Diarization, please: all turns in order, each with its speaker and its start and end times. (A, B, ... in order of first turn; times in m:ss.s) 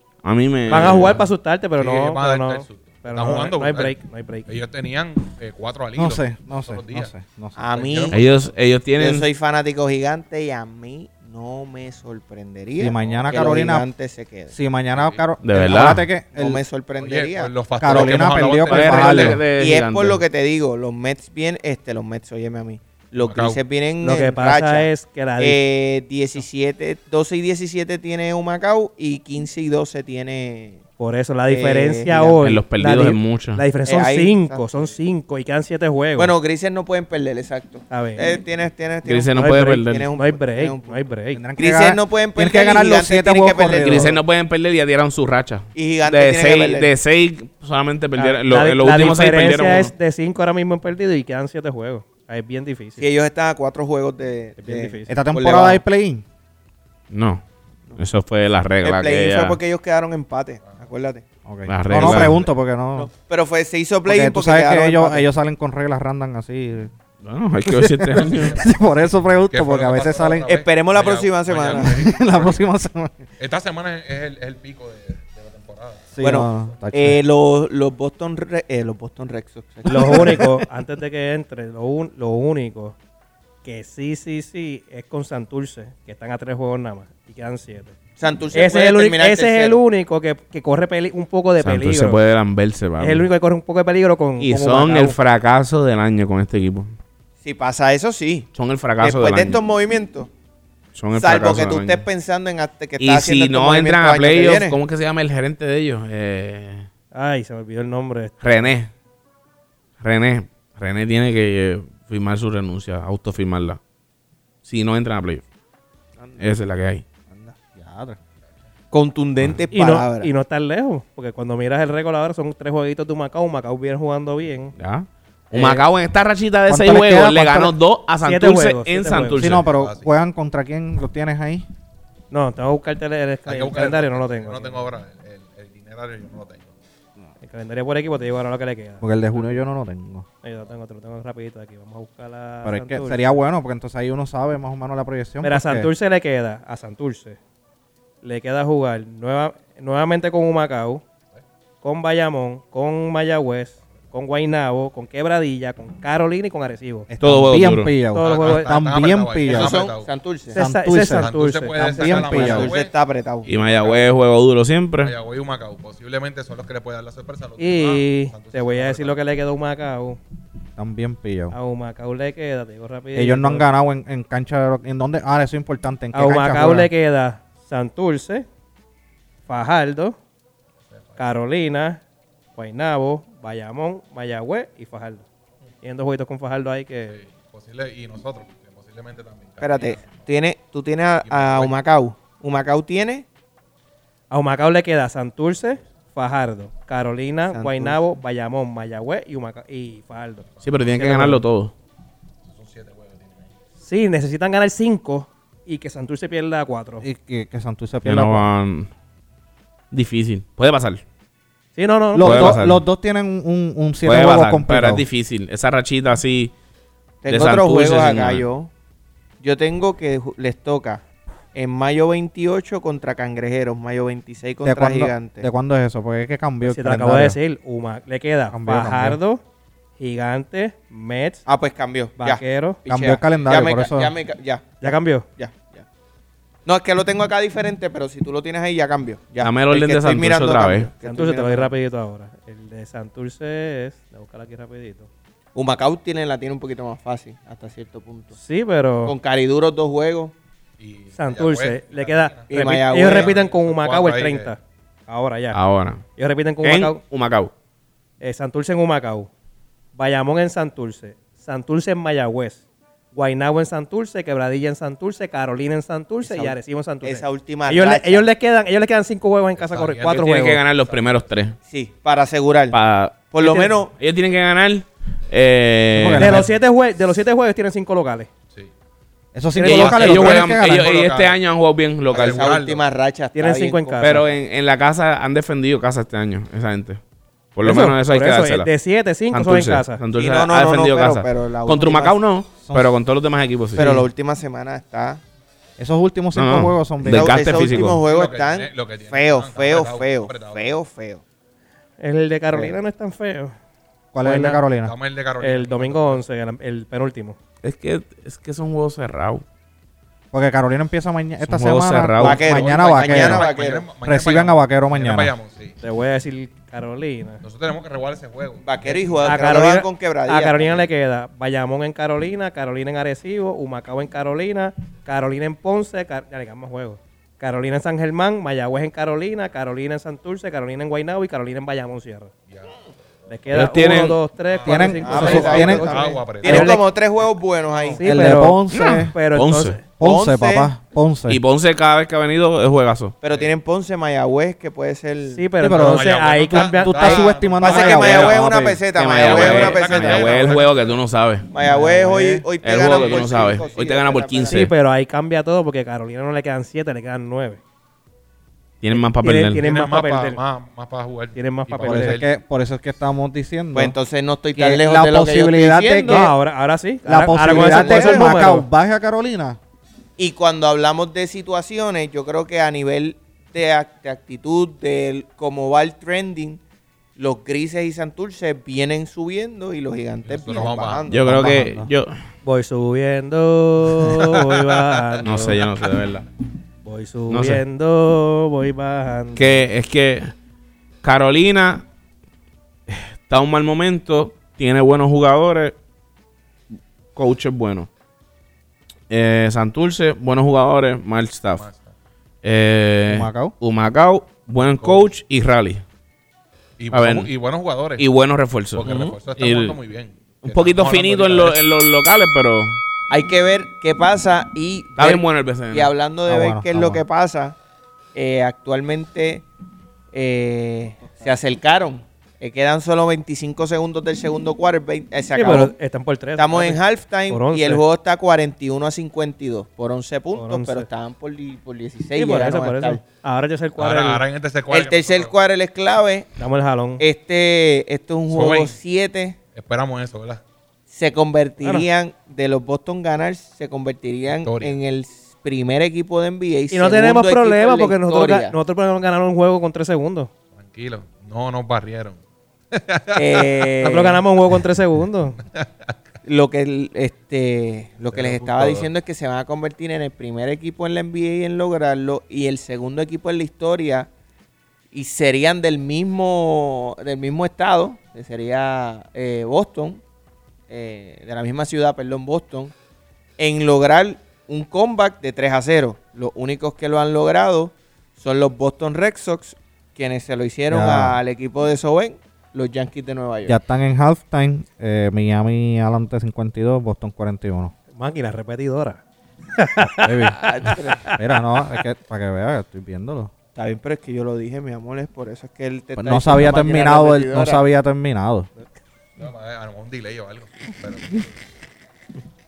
0:00.2-0:01.2 A
0:00.7-0:04.5 B
0:00.7-0:01.2 C
0:01.8-0:07.1 C
0:06.0-0:07.7 D
0:07.6-0:08.2 E
0:07.6-0:08.5 C
0:08.1-0:09.2 A
0:09.0-0:14.5 E
0:12.8-0:13.9 D
0:12.9-0:13.3 C
0:14.5-0:16.6 D
0:14.9-0:15.2 C
0:15.4-0:16.1 A
0:16.3-0:18.1 E
0:17.0-0:19.4 C
0:17.8-0:19.4 D
0:18.6-0:20.2 A
0:19.5-0:30.8 E
0:23.2-0:23.6 C
0:24.0-0:25.6 B
0:31.0-0:36.3 B
0:31.5-0:32.4 E
0:32.4-0:33.6 A
0:33.8-0:34.7 E
0:36.2-0:41.0 E
0:37.9-0:38.3 B
0:39.0-0:40.1 A
0:39.4-0:41.5 B
0:41.3-0:44.1 D
0:41.6-0:44.2 E
0:43.7-0:49.9 A
0:45.7-0:46.9 E
0:48.2-0:53.0 B
0:53.0-0:55.8 E
0:54.6-0:55.2 B
0:55.1-0:56.2 D
0:57.1-0:57.4 A
0:58.0-0:59.6 A
0:58.8-1:01.2 E
1:01.4-1:03.1 D
1:01.7-1:02.4 A
1:01.9-1:02.3 E
1:03.0-1:05.3 E
1:04.0-1:06.9 D
1:07.2-1:08.6 A
1:07.6-1:10.5 D
1:08.1-1:12.6 C
1:10.5-1:12.1 E
1:11.8-1:13.1 D
1:13.4-1:16.3 C
1:16.1-1:17.2 D
1:16.2-1:20.4 E
1:19.8-1:20.6 D
1:19.9-1:23.0 B
1:23.6-1:27.9 B
1:28.2-1:29.8 E
1:28.5-1:32.2 B
1:31.6-1:33.3 A
1:33.0-1:35.2 B
1:34.4-1:36.9 A
1:37.4-1:38.5 E
1:38.5-1:39.6 A
1:39.0-1:40.3 E
1:40.9-1:42.0 A
1:41.1-1:44.8 E
1:43.0-1:46.9 A
1:47.1-1:48.8 B
1:48.4-1:48.9 A
1:50.0-1:53.8 A
1:54.6-1:55.4 A
1:56.2-1:56.5 E
1:56.4-1:57.0 A
1:57.3-1:58.2 D
1:58.9-2:00.3 E
1:59.7-2:04.7 B
2:04.8-2:09.6 A
2:05.5-2:05.8 B
2:06.7-2:07.8 D
2:08.2-2:09.5 B
2:09.4-2:11.6 D
2:09.4-2:10.1 C
2:12.3-2:14.9 B
2:13.4-2:16.7 C
2:17.4-2:19.4 B
2:19.0-2:20.2 D
2:20.4-2:23.4 B
2:22.6-2:25.9 D
2:25.4-2:27.4 B
2:28.2-2:31.0 B
2:31.8-2:37.1 B
2:37.1-2:39.9 D
2:37.2-2:37.9 A
2:38.0-2:38.8 B
2:38.1-2:40.1 C
2:39.4-2:40.6 E
2:40.5-2:42.5 B
2:40.5-2:42.7 D
2:41.1-2:42.9 C
2:42.0-2:43.6 E
2:43.4-2:45.1 A
2:43.5-2:44.1 C
2:45.0-2:49.2 C
2:47.6-2:50.2 B
2:50.8-2:51.5 D
2:51.5-2:53.6 B
2:53.1-2:56.9 D
2:56.1-2:58.4 B
2:59.4-3:00.2 B
3:01.2-3:02.0 B
3:02.5-3:05.2 B
3:05.8-3:07.2 B
3:07.1-3:10.2 C
3:09.6-3:13.2 E
3:11.2-3:11.8 C
3:14.3-3:21.4 B
3:17.5-3:18.0 E
3:20.6-3:21.7 A
3:22.5-3:23.5 C
3:23.8-3:27.0 B
3:27.0-3:28.5 D
3:28.0-3:28.9 A
3:29.9-3:31.0 A
3:31.8-3:32.6 B
3:32.1-3:35.0 D
3:32.2-3:32.8 A
3:34.0-3:36.5 A
3:37.2-3:38.7 E
3:37.3-3:38.4 A
3:39.4-3:41.0 E
3:41.5-3:45.4 E
3:44.6-3:47.4 D
3:46.6-3:49.4 B
3:48.5-3:49.2 D
3:50.0-3:51.4 B
3:51.4-3:55.8 E
3:52.2-3:52.8 B
3:52.9-3:54.1 D
3:53.3-3:53.7 C
3:54.8-3:55.3 B
3:56.6-4:01.7 E
3:59.4-4:00.9 A
4:01.0-4:05.1 B
4:05.5-4:08.3 E
4:08.4-4:09.1 B
4:09.0-4:10.3 E
4:10.8-4:14.5 C
4:11.2-4:15.6 B
4:12.5-4:13.4 E
4:15.5-4:16.0 A
4:16.2-4:17.0 B
4:16.6-4:17.5 A
4:18.2-4:19.3 B
4:19.9-4:30.6 B
4:26.2-4:28.3 E
4:29.5-4:31.4 C
4:30.1-4:31.6 A
4:31.7-4:32.8 E
4:32.7-4:33.3 A
4:33.3-4:33.9 E
4:33.4-4:33.7 B
4:33.9-4:36.5 A
4:36.0-4:36.5 D
4:36.1-4:38.3 B
4:39.3-4:40.9 D
4:39.6-4:40.3 B
4:39.6-4:42.4 A
4:39.7-4:41.4 C
4:42.1-4:42.8 C
4:42.1-4:44.2 E
4:43.3-4:44.2 B
4:44.0-4:47.0 A
4:47.6-4:48.7 A
4:47.6-4:50.0 B
4:49.3-4:54.0 A
4:50.2-4:52.2 E
4:52.6-4:52.9 D
4:53.7-4:55.2 E
4:55.8-4:57.6 D
4:56.3-4:58.0 A
4:57.1-5:01.2 E
4:58.0-5:00.8 C
5:02.0-5:03.5 B
5:04.1-5:04.9 D
5:04.2-5:04.7 B
5:04.7-5:06.2 C
5:05.4-5:07.4 B
5:07.6-5:09.4 A
5:10.3-5:15.3 D
5:11.4-5:12.6 A
5:12.2-5:13.9 E
5:12.2-5:15.8 C
5:15.8-5:17.4 B
5:17.4-5:19.2 C
5:18.6-5:20.9 E
5:19.2-5:32.3 B
5:32.5-5:33.8 C
5:33.3-5:36.8 B
5:33.5-5:34.2 A
5:34.4-5:36.7 C
5:34.6-5:36.7 D
5:35.0-5:38.3 E
5:37.7-5:38.0 C
5:37.9-5:39.9 B
5:38.0-5:39.1 D
5:38.7-5:39.8 A
5:40.0-5:41.4 D
5:40.0-5:40.7 E
5:41.3-5:43.1 A
5:43.2-5:45.5 E
5:43.2-5:43.5 C
5:45.3-5:47.4 B
5:45.6-5:48.8 D
5:45.6-5:48.5 C
5:47.0-5:50.6 E
5:48.9-5:51.5 A
5:49.1-5:51.0 C
5:51.5-5:54.7 E
5:51.6-5:52.5 D
5:52.6-5:54.7 A
5:52.7-5:53.9 C
5:54.5-5:57.6 B
5:58.8-5:59.6 A
5:58.9-6:00.4 B
5:59.6-6:02.3 C
6:01.3-6:02.2 B
6:01.8-6:04.0 D
6:03.7-6:06.3 E
6:04.5-6:06.3 D
6:06.1-6:08.6 B
6:07.0-6:09.6 D
6:07.4-6:08.5 E
6:10.2-6:16.6 E
6:17.2-6:21.6 E
6:20.2-6:21.1 C
6:21.1-6:22.2 A
6:21.2-6:21.9 D
6:22.4-6:25.7 B
6:24.1-6:25.2 C
6:25.2-6:26.2 A
6:26.8-6:29.6 B
6:27.3-6:27.6 A
6:29.3-6:30.3 A
6:31.0-6:31.8 A
6:32.9-6:35.8 A
6:37.1-6:37.9 A
6:39.1-6:41.6 A
6:41.6-6:41.9 C
6:42.4-6:45.8 A
6:43.1-6:43.5 D
6:44.8-6:45.1 C
6:46.8-6:48.0 C
6:46.9-6:47.3 A
6:48.0-6:49.8 A
6:48.8-6:51.6 C
6:48.8-6:49.2 E
6:50.4-6:52.8 A
6:53.1-6:57.6 E
6:55.0-6:55.9 A
6:56.3-6:57.0 D
6:58.1-6:59.4 E
7:00.1-7:05.7 E
7:05.3-7:07.8 B
7:06.4-7:13.0 E
7:10.3-7:10.9 B
7:12.1-7:14.2 B
7:13.8-7:15.3 C
7:14.7-7:16.3 E
7:16.4-7:17.0 B
7:17.0-7:19.4 E
7:18.3-7:18.8 C
7:19.5-7:20.4 C
7:20.9-7:28.6 E
7:21.6-7:21.9 B
7:24.4-7:24.8 C
7:26.7-7:30.3 B
7:30.5-7:32.2 C
7:32.7-7:33.7 C
7:33.2-7:34.2 E
7:33.8-7:35.4 B
7:36.2-7:44.1 E
7:38.1-7:38.9 C
7:44.9-7:50.0 E
7:50.7-7:52.7 E
7:53.4-8:03.6 E
8:00.7-8:01.2 D
8:03.4-8:07.7 D
8:07.9-8:09.0 B
8:09.5-8:11.2 B
8:09.8-8:10.4 D
8:10.3-8:11.1 E
8:11.1-8:13.3 D
8:13.5-8:17.6 E
8:16.0-8:18.5 D
8:19.2-8:21.3 C